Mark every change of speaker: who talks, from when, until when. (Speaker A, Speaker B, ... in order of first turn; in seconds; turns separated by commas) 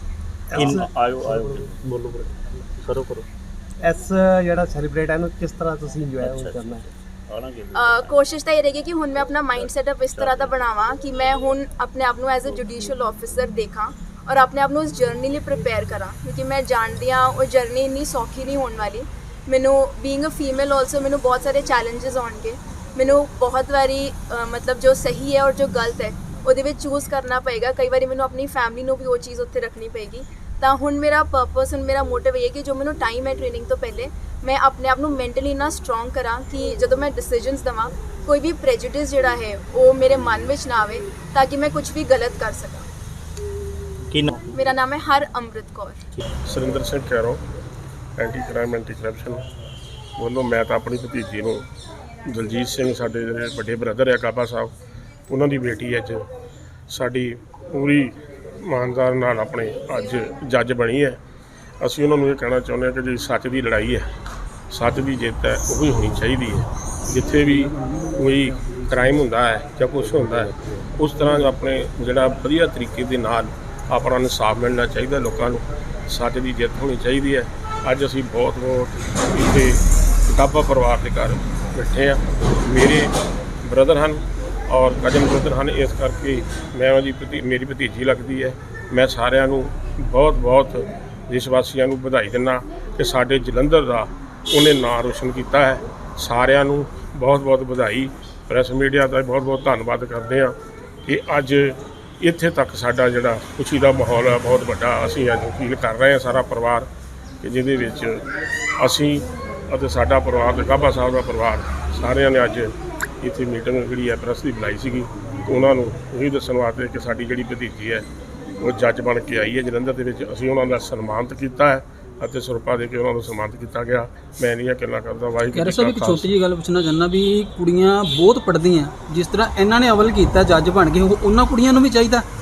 Speaker A: 0.5-2.0, Speaker B: 0.5-3.3, Speaker A: 3.8-6.8, Speaker B: 6.2-8.4, Speaker C: 7.7-42.9, Speaker B: 9.1-10.7, Speaker C: 44.5-46.0, Speaker D: 46.4-47.4, Speaker D: 48.2-49.4, Speaker D: 50.2-51.6, Speaker D: 52.3-54.7, Speaker D: 55.3-56.3, Speaker D: 56.9-61.2, Speaker D: 61.8-64.1, Speaker D: 64.7-106.9, Speaker D: 107.4-108.2, Speaker D: 108.8-118.0, Speaker D: 118.6-126.3, Speaker E: 125.5-132.2